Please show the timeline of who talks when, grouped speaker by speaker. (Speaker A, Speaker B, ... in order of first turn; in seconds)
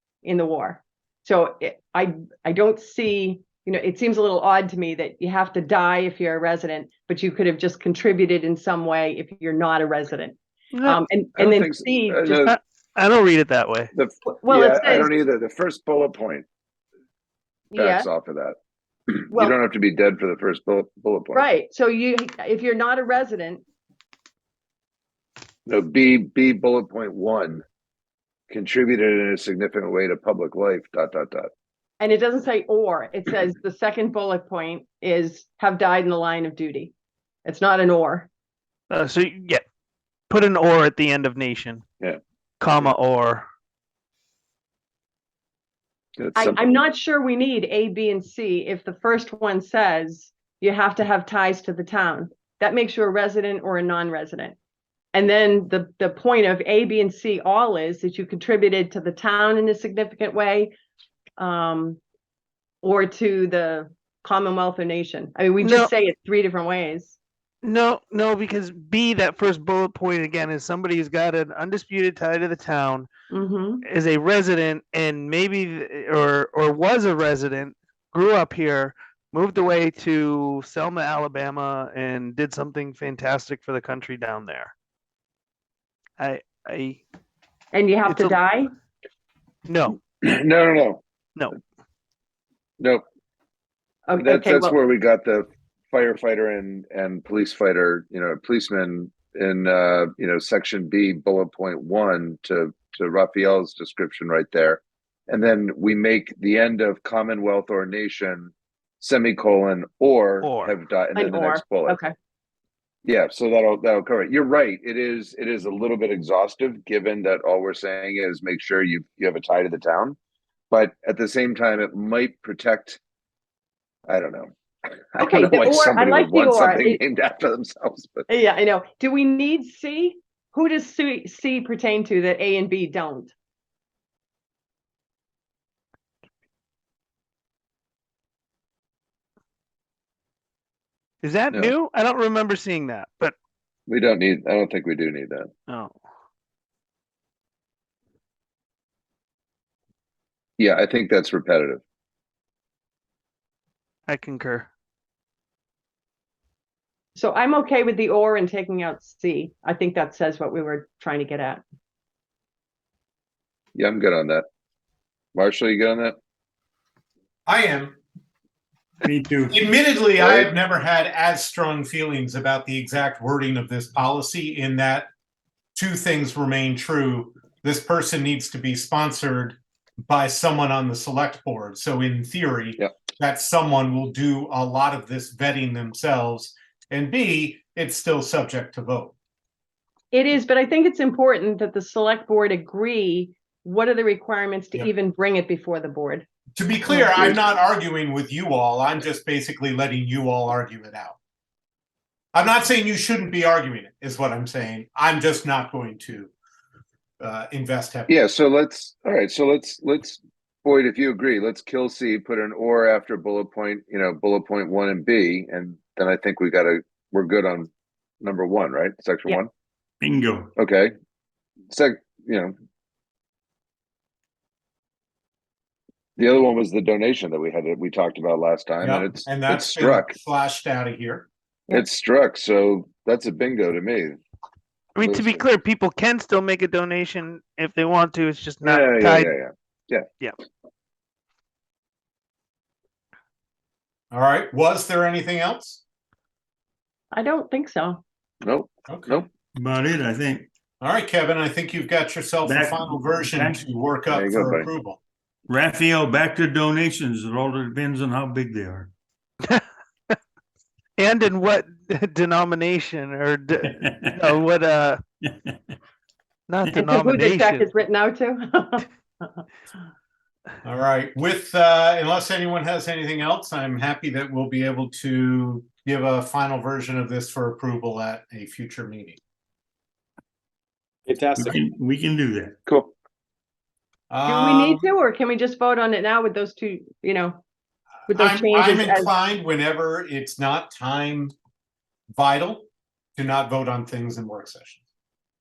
Speaker A: 0.2-12.4, 14.3-15.1, 17.7-18.1, 21.3-23.6, 32.0-36.9, 37.4-38.3, 46.4-54.6, 55.1-60.7, 61.4-62.0, 62.8-67.2, 73.3-73.8, 87.7-88.7, 94.1-94.8, 111.2-112.1, 125.2-127.0, 128.3-133.3, 157.2-161.6, 190.1-196.2, 196.9-197.4, 247.1-248.0, 266.8-269.4, 284.2-287.4, 288.1-289.1
Speaker B: 10.7-11.0, 12.4-13.9, 38.9-39.6, 40.3-41.8, 42.6-43.5, 65.6-65.9, 67.6-73.1, 73.8-84.7, 86.2-87.0, 88.0-88.4, 89.7-90.0, 110.4-110.7, 141.2-143.3, 145.7-145.9, 154.1-154.7, 234.9-239.3, 261.0-265.0, 266.5-267.7
Speaker C: 11.3-12.6, 13.9-16.4, 17.8-18.6, 19.1-21.5, 25.6-27.6, 28.5-31.5, 46.2-46.8, 90.2-91.0, 94.2-112.0, 113.0-120.2, 120.7-123.0, 124.1-128.3, 143.9-145.5, 150.6-151.8, 163.7-164.4, 165.3-166.2, 170.2-170.5, 208.1-217.7, 218.2-219.5, 220.6-220.9, 221.7-222.5, 226.2-230.1, 231.7-234.2, 235.0-235.4, 238.6-240.1, 248.4-249.3, 254.1-254.7, 282.6-282.9
Speaker D: 167.5-168.0, 169.5-175.1, 175.7-189.1, 196.6-201.2, 202.3-206.3, 207.2-208.1, 228.8-231.3, 244.1-245.8, 248.9-249.2, 250.8-255.0, 270.6-279.2, 281.1-281.5, 284.1-284.8, 288.1-291.3, 292.1-292.6, 293.2-294.8
Speaker E: 169.0-169.6, 220.0-220.5, 249.6-250.5, 252.4-253.6, 255.5-258.9, 263.8-264.2, 265.2-265.5, 281.1-282.6